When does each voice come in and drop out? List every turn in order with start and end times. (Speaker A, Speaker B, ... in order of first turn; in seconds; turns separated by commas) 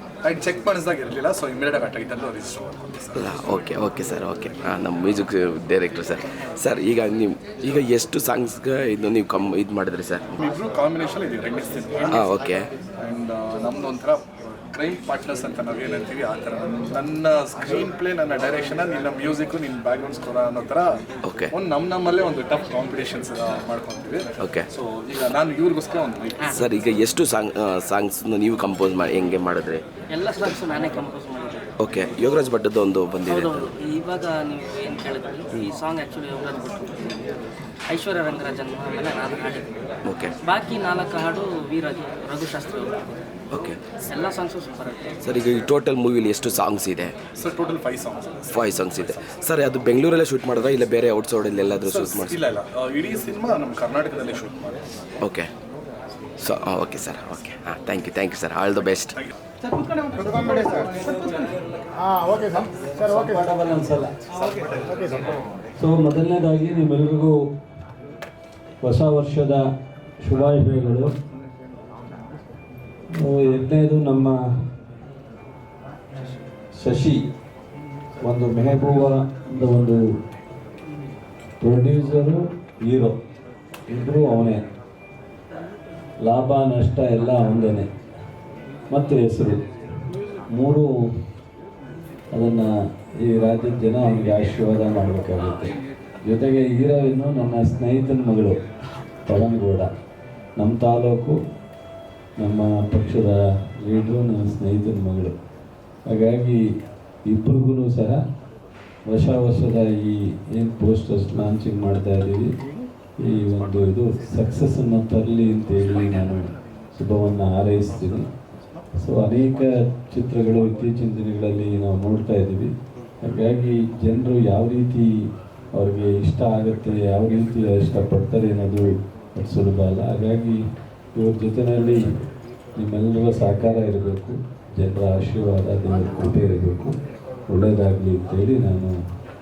Speaker A: 0.2-3.3, Speaker B: 3.1-10.3, Speaker A: 10.4-12.2, Speaker B: 12.1-12.7, Speaker A: 13.0-21.0, Speaker B: 21.2-21.5, Speaker A: 21.5-26.6, Speaker B: 24.4-24.7, Speaker C: 26.4-26.7, Speaker B: 26.5-29.9, Speaker C: 30.1-31.6, Speaker B: 31.8-33.7, Speaker C: 33.3-37.2, Speaker C: 37.9-39.7, Speaker B: 40.1-40.3, Speaker C: 40.4-43.0, Speaker B: 43.5-43.8, Speaker C: 44.0-45.2, Speaker B: 45.2-47.1, Speaker A: 47.4-49.1, Speaker B: 48.5-52.4, Speaker A: 51.9-54.8, Speaker B: 55.2-55.5, Speaker B: 56.4-59.1, Speaker D: 59.9-61.7, Speaker D: 62.3-64.2, Speaker D: 65.8-67.3, Speaker D: 68.8-69.6, Speaker D: 70.2-71.1, Speaker D: 73.2-74.3, Speaker D: 76.8-77.3, Speaker D: 78.2-80.0, Speaker D: 81.6-83.2, Speaker D: 83.9-84.6, Speaker D: 86.2-87.9, Speaker D: 88.9-89.6, Speaker D: 90.5-91.0, Speaker D: 92.3-92.7, Speaker D: 93.2-95.7, Speaker D: 96.3-98.6, Speaker D: 99.3-99.9, Speaker D: 100.6-101.4, Speaker D: 102.4-105.3, Speaker D: 106.1-106.6, Speaker D: 107.3-108.2, Speaker D: 109.1-112.5, Speaker D: 113.2-116.4, Speaker D: 117.0-118.2, Speaker D: 119.0-122.7, Speaker D: 123.2-125.1, Speaker D: 125.8-130.6, Speaker D: 131.2-132.0, Speaker D: 132.8-136.9, Speaker D: 137.5-138.9